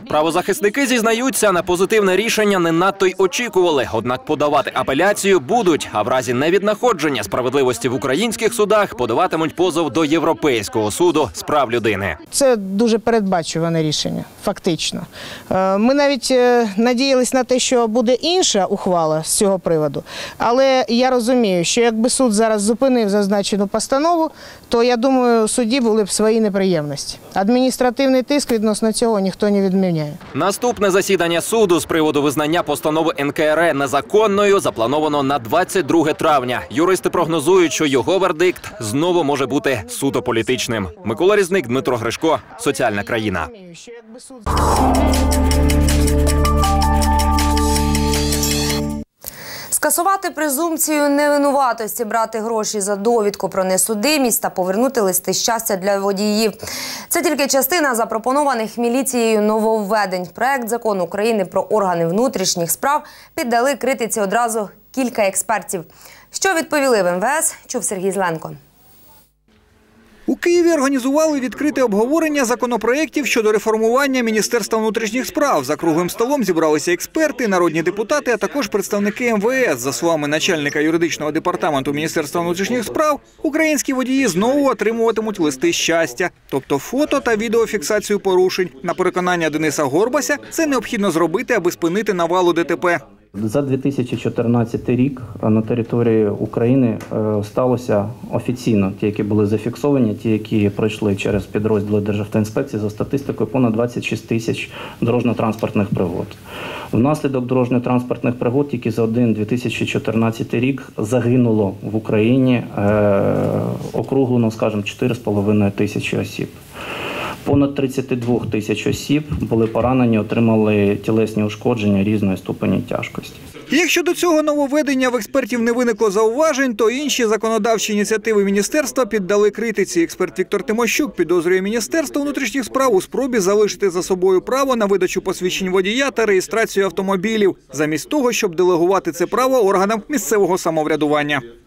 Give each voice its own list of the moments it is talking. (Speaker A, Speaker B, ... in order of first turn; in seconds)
Speaker A: 0.1-12.2, 30.3-43.5
Speaker B: 12.3-30.2, 39.8-41.8, 42.5-44.5
Speaker C: 49.7-56.6, 57.1-68.6
Speaker D: 70.3-93.0, 123.7-141.4
Speaker E: 93.4-106.4, 106.9-116.6, 117.4-123.4